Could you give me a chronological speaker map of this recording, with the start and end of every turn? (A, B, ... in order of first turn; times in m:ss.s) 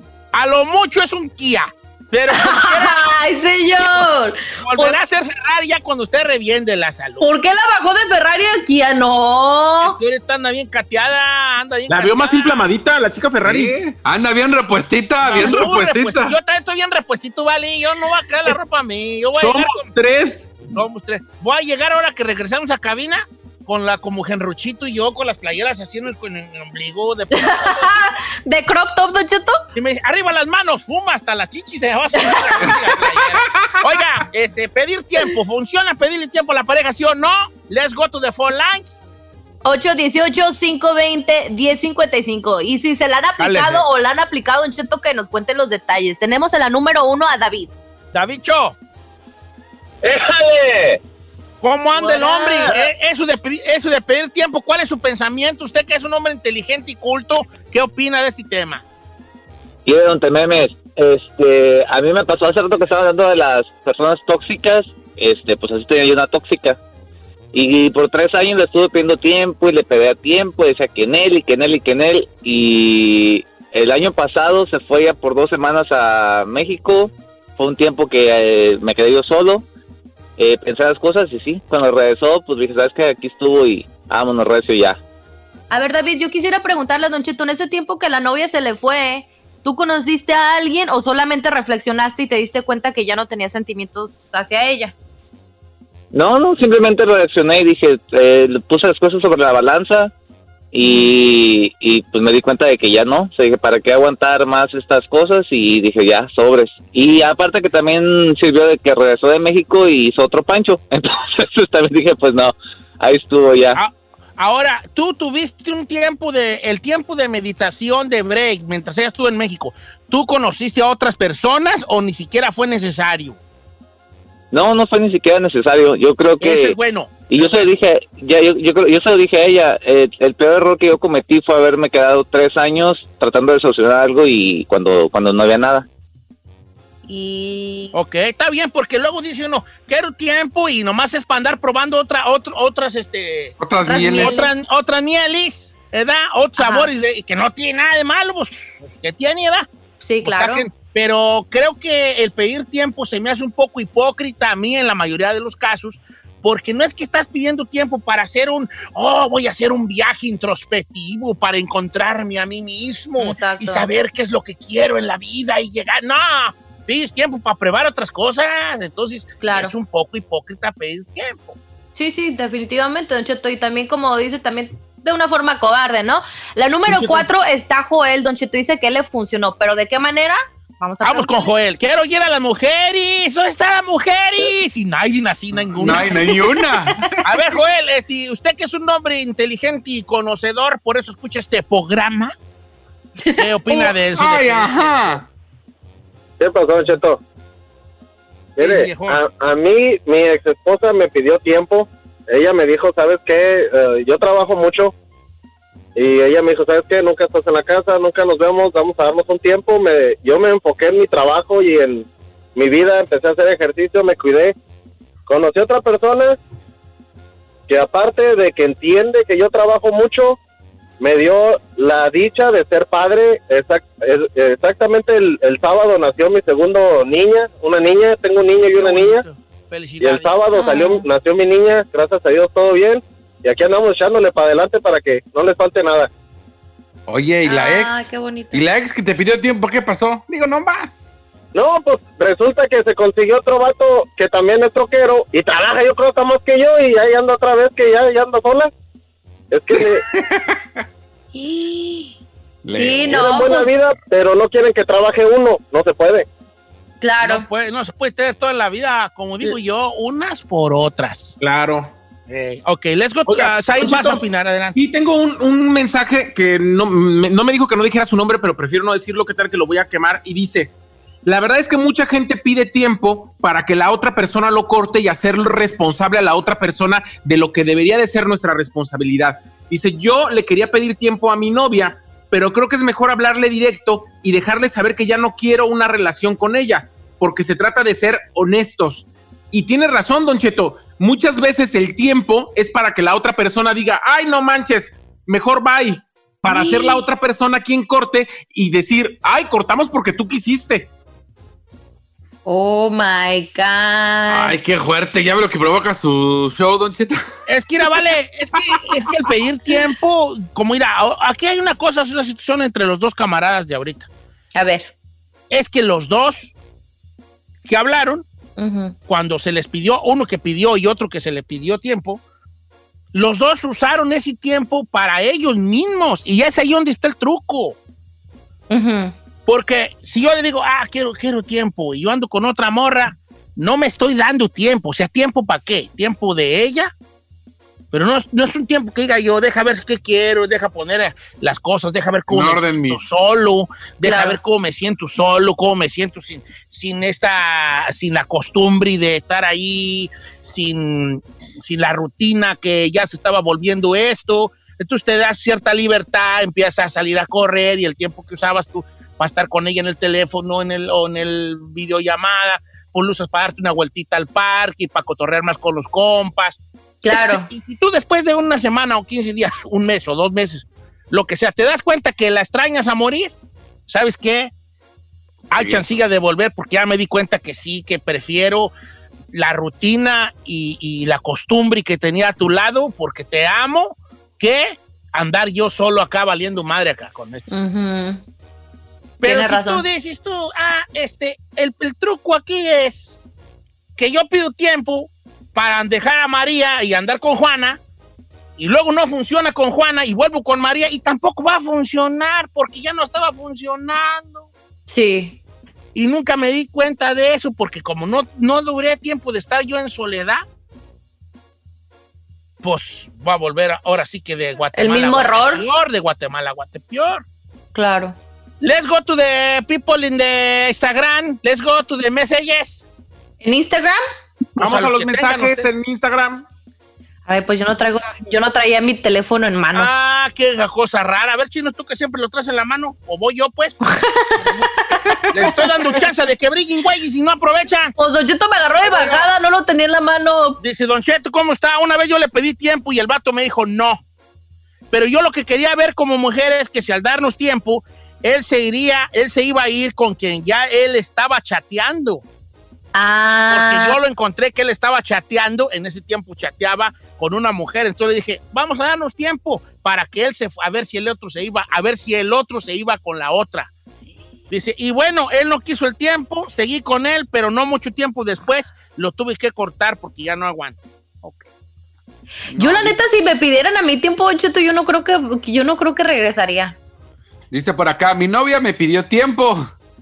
0:00.3-0:03.0 A
0:02.3-0:05.0 B
0:04.6-0:07.3 A
0:07.2-0:10.0 B
0:09.8-0:12.6 A
0:11.9-0:13.8 C
0:13.4-0:16.4 D
0:15.2-0:19.9 A
0:19.3-0:20.7 C
0:20.7-0:28.1 A
0:27.3-0:29.6 B
0:29.7-0:39.0 A
0:32.2-0:32.7 B
0:33.5-0:33.8 D
0:39.6-0:47.7 B
0:43.4-0:43.8 A
0:48.1-0:48.8 A
0:50.0-0:51.0 E
0:51.6-0:58.8 A
0:51.9-0:52.8 B
0:59.8-1:06.8 E
1:07.5-1:19.6 E
1:20.4-1:25.0 E
1:25.7-1:34.9 B
1:36.1-1:40.1 E
1:40.7-1:53.8 E
1:40.8-1:41.1 B
1:53.7-2:03.4 A
2:04.5-2:06.8 E
2:06.4-2:07.6 A
2:07.3-2:15.8 E
2:17.0-2:17.9 B
2:17.9-2:23.5 A
2:23.6-2:24.4 D
2:23.8-2:24.5 B
2:24.1-2:29.7 A
2:26.6-2:26.9 B
2:30.0-2:30.7 B
2:30.2-2:51.6 A
2:43.2-2:43.9 B
2:49.4-2:49.7 B
2:51.9-3:01.5 B
3:01.0-3:06.2 A
3:05.6-3:07.2 D
3:05.8-3:07.2 B
3:07.2-3:12.3 A
3:13.2-3:13.9 B
3:13.4-3:15.2 A
3:14.2-3:15.3 D
3:16.4-3:17.2 F
3:18.6-3:19.2 A
3:18.6-3:24.9 F
3:26.0-3:34.5 F
3:35.3-3:36.4 F
3:37.7-3:40.4 F
3:41.0-3:49.2 F
3:48.7-3:50.4 A
3:50.0-3:56.1 F
3:50.5-3:51.0 B
3:57.1-4:01.1 D
3:57.4-3:58.6 B
4:01.5-4:08.7 F
4:09.5-4:10.0 F
4:09.7-4:10.6 D
4:11.3-4:12.1 B
4:12.6-4:13.4 D
4:12.7-4:13.7 B
4:13.2-4:16.3 F
4:17.0-4:17.5 B
4:17.2-4:21.4 A
4:21.4-4:21.9 C
4:22.3-4:24.8 A
4:23.3-4:24.2 C
4:24.7-4:30.7 C
4:31.2-5:00.9 C
4:56.4-4:57.0 B
5:02.4-5:04.5 B
5:04.3-5:07.2 D
5:07.5-5:14.1 A
5:14.5-5:14.9 B
5:15.5-5:16.5 A
5:17.6-5:18.2 A
5:18.6-5:18.9 B
5:19.1-5:22.2 A
5:23.1-5:27.8 A
5:28.7-5:29.1 B
5:29.4-5:36.9 A
5:37.9-6:13.3 A
5:42.3-5:43.0 D
5:44.0-5:44.4 B
6:07.0-6:07.5 B
6:13.9-6:14.5 A
6:15.5-6:18.7 A
6:15.5-6:15.9 D
6:19.3-6:27.6 A
6:27.5-6:28.2 B
6:29.2-6:33.2 A
6:29.2-6:29.8 B
6:34.0-6:37.8 A
6:38.6-6:44.5 A
6:44.9-6:45.4 B
6:45.9-6:50.4 A
6:52.6-6:57.2 A
6:54.7-6:55.6 B
6:57.7-6:58.1 B
6:58.6-7:02.9 A
7:03.4-7:04.0 B
7:04.6-7:05.6 A
7:04.6-7:06.5 C
7:07.3-7:09.9 B
7:09.7-7:13.8 A
7:13.8-7:15.2 B
7:14.4-7:14.6 A
7:15.3-7:17.9 A
7:18.0-7:20.6 B
7:20.6-7:24.0 A
7:24.9-7:32.2 A
7:32.9-7:34.0 B
7:33.5-7:43.7 A
7:44.5-7:51.5 A
7:52.5-7:56.8 B
7:52.6-7:52.9 D
7:57.5-7:59.7 D